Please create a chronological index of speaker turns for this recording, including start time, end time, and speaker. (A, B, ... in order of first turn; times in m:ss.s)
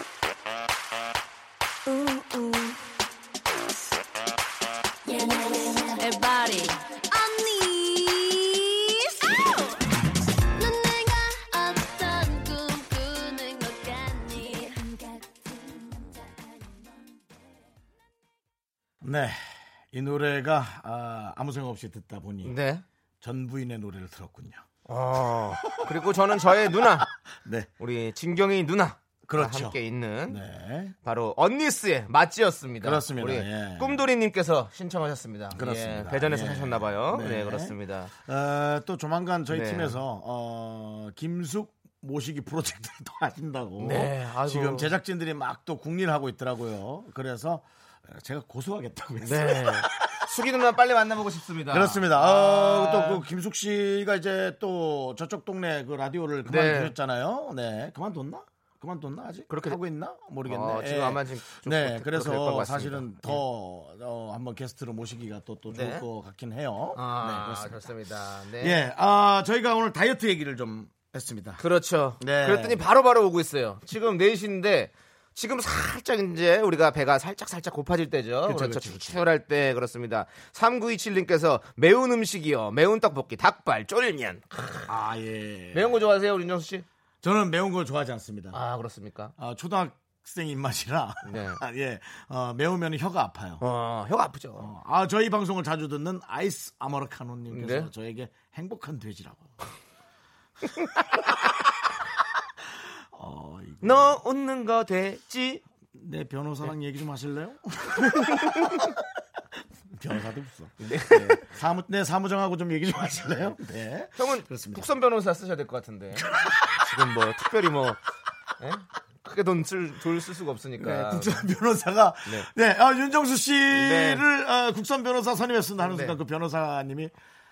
0:01.9-0:02.8 A
0:05.0-0:09.8 A
0:10.6-0:16.7 A
0:19.0-0:19.4 B
0:19.9-0:22.6 B
0:22.4-0:22.8 C
0:23.2-0:24.6 B
0:24.9-0:27.1 C
0:25.7-0:27.7 B
0:27.8-0:30.4 C
0:29.3-0:29.8 B
0:30.3-0:31.0 B
0:31.0-0:38.1 C
0:32.8-0:34.0 B
0:35.5-0:50.3 B
0:39.5-0:40.0 C
0:43.8-0:44.9 C
0:49.2-0:53.2 C
0:51.7-1:07.9 B
0:56.5-0:56.9 C
0:59.5-0:59.8 C
1:00.5-1:03.4 C
1:05.7-1:06.0 C
1:07.0-1:08.8 C
1:08.6-1:11.6 B
1:11.6-1:24.9 C
1:12.2-1:12.8 B
1:18.5-1:19.2 B
1:24.9-1:26.0 B
1:25.7-1:26.8 C
1:27.2-1:28.6 B
1:28.5-1:29.3 C
1:29.4-1:33.6 B
1:31.2-1:31.6 C
1:33.6-1:34.7 C
1:34.6-1:39.5 B
1:37.5-1:37.9 C
1:42.8-1:44.2 B
1:43.8-1:45.6 C
1:45.9-1:49.0 B
1:48.2-1:48.9 C
1:49.9-1:54.8 B
1:50.8-1:51.4 C
1:54.2-1:58.0 C
1:56.2-1:56.8 B
1:58.6-2:01.5 C
2:00.8-2:07.1 B
2:03.7-2:04.2 C
2:05.8-2:06.2 C